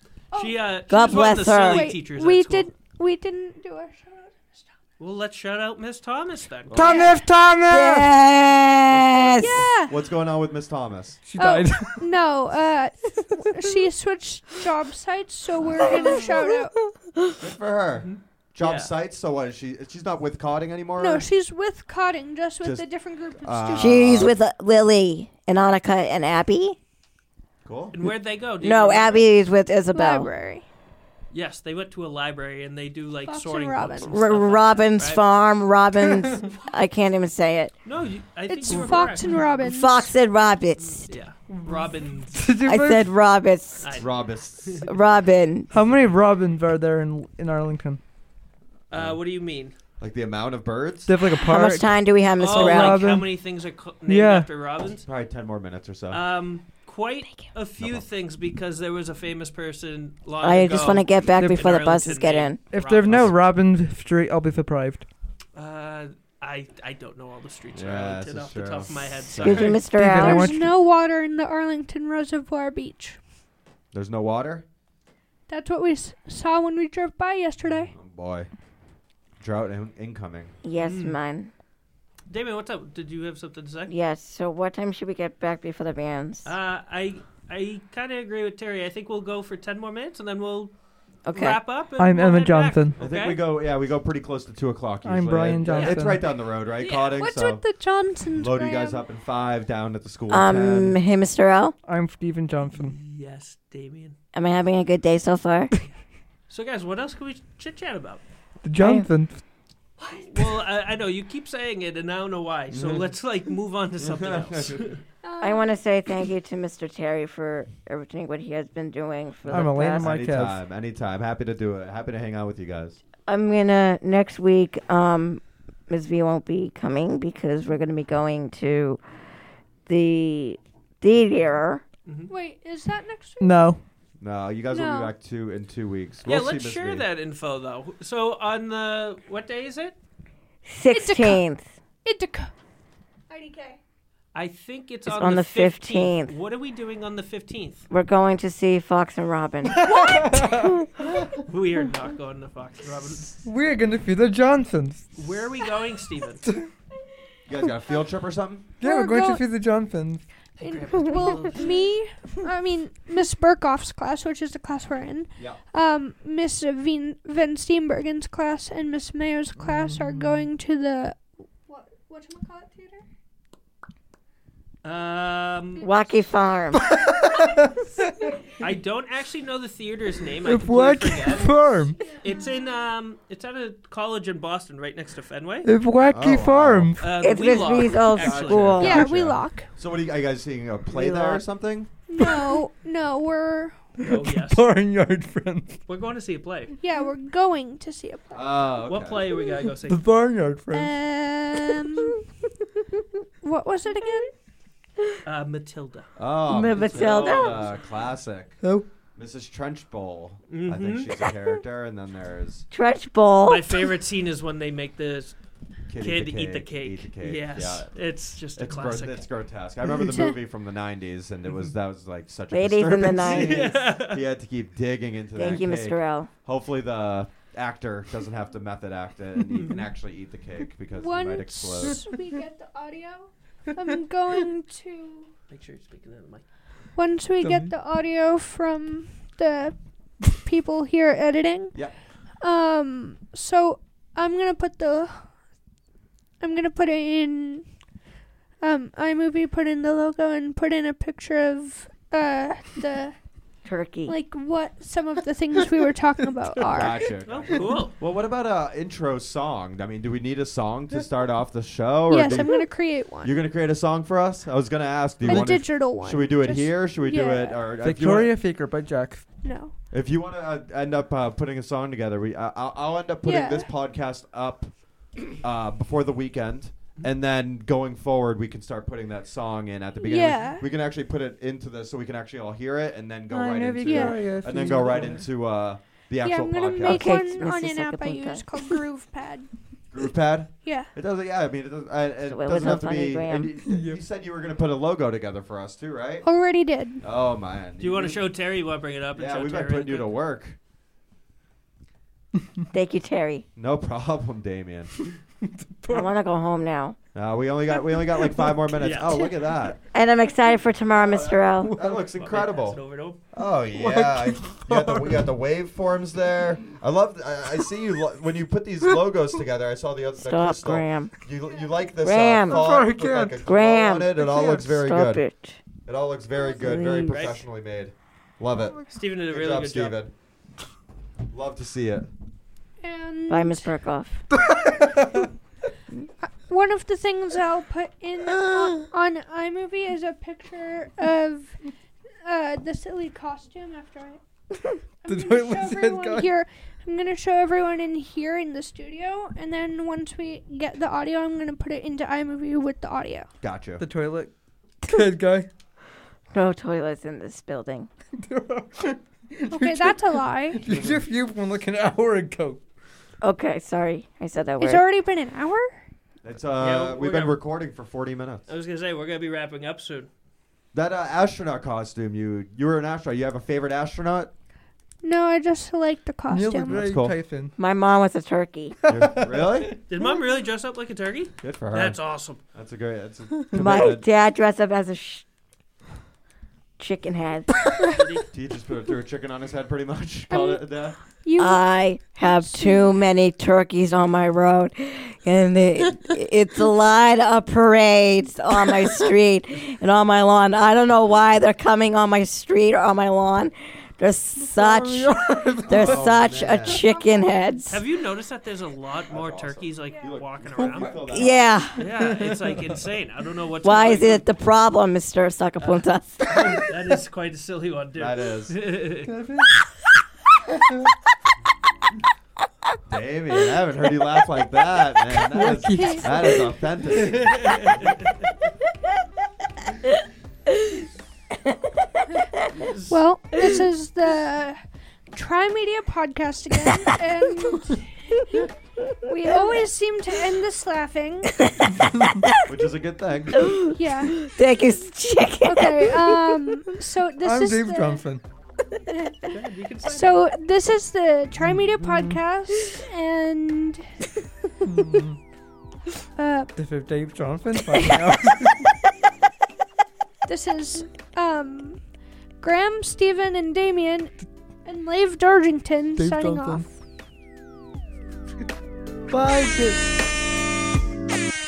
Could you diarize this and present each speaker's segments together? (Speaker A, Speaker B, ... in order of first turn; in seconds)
Speaker A: 0.3-2.7, 5.0-6.9, 17.9-18.9, 27.9-29.3, 31.3-35.2, 37.8-39.5, 40.9-42.5, 43.8-44.1, 48.9-49.7, 52.4-55.1, 56.1-63.3, 65.5-69.8, 80.8-81.2, 82.3-83.9, 86.4-90.7, 91.3-93.5, 95.7-97.2, 102.8-104.2, 106.5-108.2, 110.2-115.0, 132.1-132.3, 136.2-139.9, 144.3-147.8, 151.4-153.4, 155.1-156.4, 160.6-161.9, 174.8-175.9, 178.6-185.7, 187.0-189.0, 194.0-194.6, 195.9-196.7, 198.8-200.0, 205.2-206.1, 206.7-207.7, 210.5-211.1, 213.4-215.3, 216.0-219.3, 223.1-224.2, 235.5-236.4, 257.2-257.9, 297.8-300.1, 308.8-309.3, 312.1-313.2, 327.1-327.4, 328.9-330.0, 366.6-367.4, 368.5-370.1, 379.9-382.4, 387.9-388.2, 407.7-410.9, 411.8-414.2, 415.6-415.9, 416.5-419.1, 427.1-427.9, 432.5-432.8, 449.3-450.2
Speaker B: 0.3-4.7, 6.8-7.2, 9.4-9.9, 11.4-16.8, 21.0-24.2, 29.9-30.6, 33.3-34.1, 38.5-40.1, 70.1-73.2, 75.5-77.9, 97.2-99.0, 115.2-115.7, 132.3-133.5, 134.7-135.1, 140.9-141.4, 142.0-142.5, 143.3-143.8, 158.8-159.5, 160.6-173.0, 181.9-182.6, 188.8-189.7, 192.1-193.8, 196.8-198.5, 200.7-202.2, 203.4-204.3, 220.0-220.3, 230.9-235.3, 236.9-241.8, 242.4-245.3, 246.4-247.7, 248.6-253.1, 254.1-257.1, 262.1-263.3, 265.2-267.6, 269.4-269.7, 273.2-273.7, 280.0-280.6, 283.8-284.2, 286.2-289.5, 290.6-290.9, 296.2-297.0, 332.8-333.7, 336.2-341.6, 342.2-344.2, 345.0-353.3, 359.5-360.6, 364.6-365.8, 375.0-376.8, 390.3-390.6, 391.2-391.6, 392.2-392.9, 406.6-407.4, 425.7-426.0, 432.9-434.6, 435.1-438.4, 439.1-441.3, 443.7-444.2, 445.5-448.0, 448.9-449.1, 449.8-453.9, 456.1-456.5, 460.2-461.8, 462.4-466.7
Speaker C: 0.9-1.9, 7.7-9.6, 15.9-16.5, 17.0-17.3, 23.8-26.8, 28.6-30.3, 34.1-37.7, 38.7-39.0, 39.6-41.1, 42.6-44.0, 44.8-45.7, 51.4-53.1, 60.4-62.6, 69.4-70.5, 80.6-81.5, 83.9-86.5, 91.3-91.6, 100.3-101.8, 104.3-105.7, 108.8-109.1, 115.4-120.1, 123.3-129.0, 129.9-131.8, 140.7-141.6, 145.1-146.3, 147.9-150.5, 175.8-176.8, 187.2-189.1, 190.9-191.4, 206.5-207.7, 212.7-213.9, 222.5-223.7, 225.3-226.3, 253.6-254.1, 286.8-288.4, 292.3-293.5, 302.7-303.4, 305.9-306.9, 309.9-311.7, 320.2-321.1, 322.0-322.7, 323.4-325.6, 326.5-327.2, 333.3-334.2, 356.3-357.9, 363.2-364.8, 377.6-378.8, 383.5-385.2, 386.8-387.6, 391.4-407.8, 411.1-411.8, 413.6-416.7, 441.4-442.3, 443.4-446.4
Speaker D: 6.7-8.1, 11.2-12.1, 41.5-43.1, 45.7-48.0, 51.1-53.4, 54.0-54.5, 61.4-61.8, 62.7-65.0, 69.8-70.7, 92.0-93.0, 95.0-96.2, 101.8-103.0, 108.6-109.4, 119.5-120.6, 133.4-133.8, 149.9-150.7, 153.4-155.1, 158.8-160.2, 169.6-170.4, 176.7-178.3, 180.4-182.0, 185.6-187.1, 194.0-195.8, 199.9-200.9, 208.6-208.8, 237.4-237.7, 265.3-265.5, 267.8-269.3, 283.3-285.2, 293.6-294.0, 305.4-306.1, 313.7-315.3, 322.5-323.4, 324.2-324.7, 334.3-335.2, 338.4-338.8, 345.1-346.3, 353.8-355.5, 358.2-362.6, 376.3-377.5, 378.8-379.2, 404.4-406.2, 411.8-412.3, 419.0-419.5, 425.3-426.5, 447.2-448.2, 451.5-452.2, 454.6-455.2, 456.6-458.7, 466.0-466.7, 469.1-469.9
Speaker E: 6.7-7.0, 8.9-11.2, 17.4-21.3, 22.6-24.3, 27.6-27.9, 43.9-44.9, 48.9-49.2, 50.0-51.1, 55.0-56.2, 67.7-69.8, 73.9-74.6, 77.9-78.5, 79.4-80.5, 93.0-97.6, 98.3-101.0, 112.7-113.1, 114.0-114.9, 119.5-123.0, 134.2-137.1, 157.5-158.7, 186.1-186.9, 188.1-191.9, 198.3-199.3, 206.2-208.6, 209.2-212.7, 215.9-217.9, 218.6-232.0, 256.6-268.3, 269.9-287.2, 289.9-296.2, 297.0-298.2, 299.1-300.6, 303.6-304.9, 307.1-309.8, 310.9-312.8, 313.3-325.2, 325.9-330.1, 331.3-332.1, 353.4-353.8, 360.7-361.0, 366.2-368.4, 370.7-374.3, 376.7-377.2, 378.9-379.7, 381.4-382.0, 382.5-384.0, 388.3-391.0, 405.7-406.8, 409.1-411.4, 417.9-418.6, 422.9-427.9, 442.5-443.5